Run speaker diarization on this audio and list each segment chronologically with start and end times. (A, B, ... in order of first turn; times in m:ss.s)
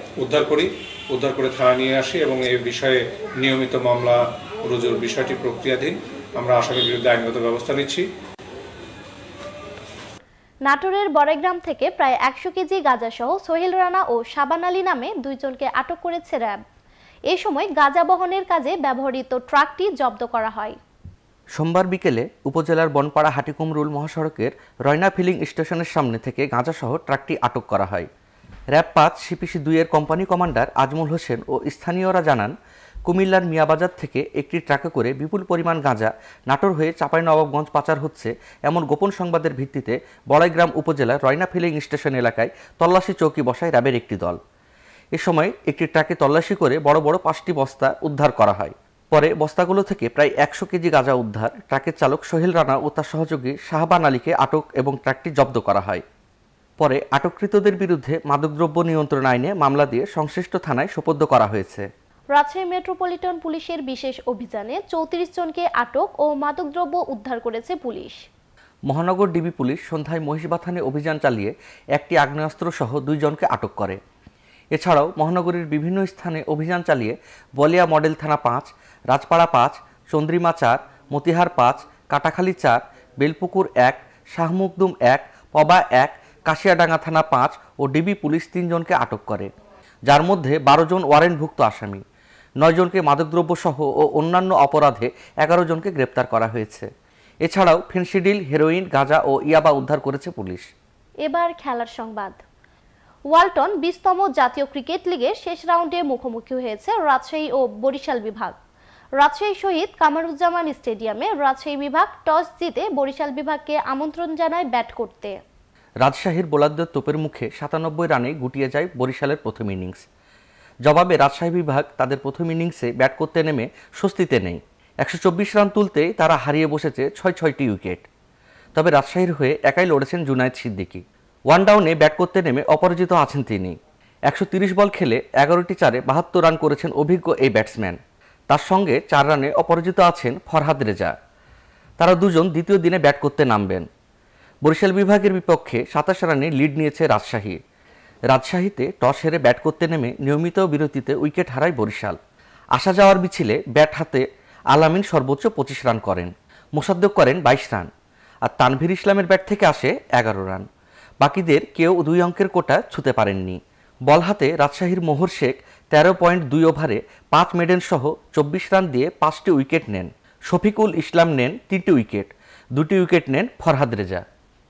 0:00.2-0:08.1 A
0:10.7-0:16.6 B
0:17.3-0:20.8 B
0:21.6-0:28.1 C
0:28.7-0:32.5 C
0:33.1-0:44.4 C
0:45.2-0:56.0 C
0:56.8-1:01.9 C
1:02.3-1:08.2 B
1:08.9-1:14.0 C
1:14.7-1:29.5 C
1:30.1-1:32.0 C
1:32.6-1:36.9 C
1:37.4-1:40.7 C
1:41.2-1:42.4 B
1:43.3-1:48.6 B
1:49.2-1:55.4 B
1:56.0-2:00.0 C
2:00.9-2:08.1 C
2:08.8-2:13.8 C
2:14.3-2:18.0 C
2:18.5-2:21.2 C
2:22.0-2:23.9 C
2:24.6-2:27.6 C
2:28.3-2:32.2 C
2:32.8-2:37.9 C
2:38.5-2:40.7 C
2:41.2-2:43.6 C
2:44.1-2:54.2 C